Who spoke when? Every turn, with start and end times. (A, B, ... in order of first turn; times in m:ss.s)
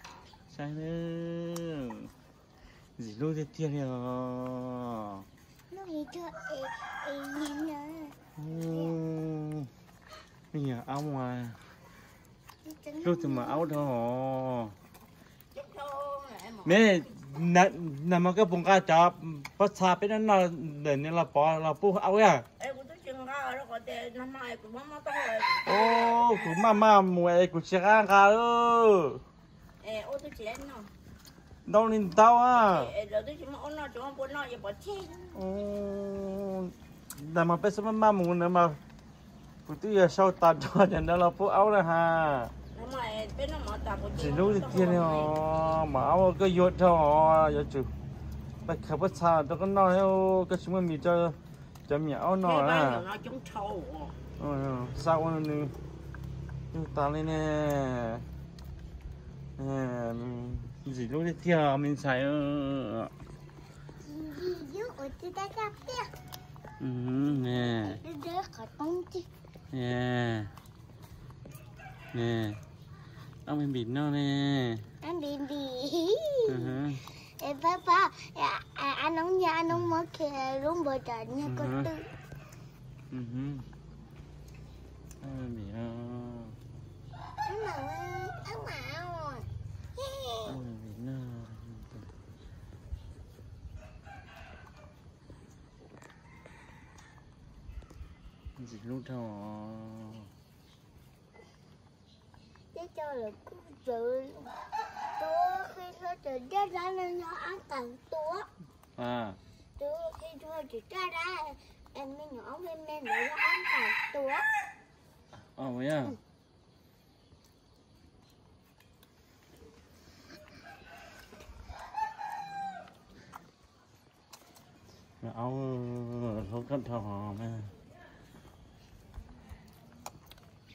0:00.5-0:02.1 A
0:03.0-0:05.3 A
0:05.7-0:08.9 B
0:08.4-0:09.7 A
0:10.5-0:11.6 A
0:12.6-0:13.7 B
0:13.0-0:14.7 A
0:15.5-0:17.0 C
0:16.6-0:22.4 A
0:22.6-0:26.6 C
0:25.7-0:29.2 A
0:29.8-0:30.9 C
0:31.7-0:32.9 A
0:32.5-0:35.4 C
0:35.4-0:38.8 A
0:39.7-0:42.5 A
0:42.7-0:45.4 C
0:44.2-0:47.9 A
0:48.6-0:53.0 A
0:52.4-0:54.2 C
0:54.4-0:55.7 A
0:56.7-0:58.3 A
0:59.6-1:03.1 A
1:04.0-1:06.1 B
1:06.8-1:08.0 A
1:07.8-1:09.3 B
1:09.7-1:10.5 A
1:12.1-1:12.6 A
1:13.5-1:14.9 A
1:15.0-1:22.1 B
1:16.5-1:17.0 A
1:21.4-1:21.9 A
1:23.1-1:23.7 A
1:25.2-1:26.6 A
1:27.4-1:30.6 B
1:30.5-1:32.1 A
1:38.6-1:40.3 A
1:42.7-1:44.6 B
1:45.2-1:48.5 B
1:49.0-1:49.4 A
1:49.8-1:54.5 B
1:55.4-1:56.2 A
2:05.2-2:07.7 A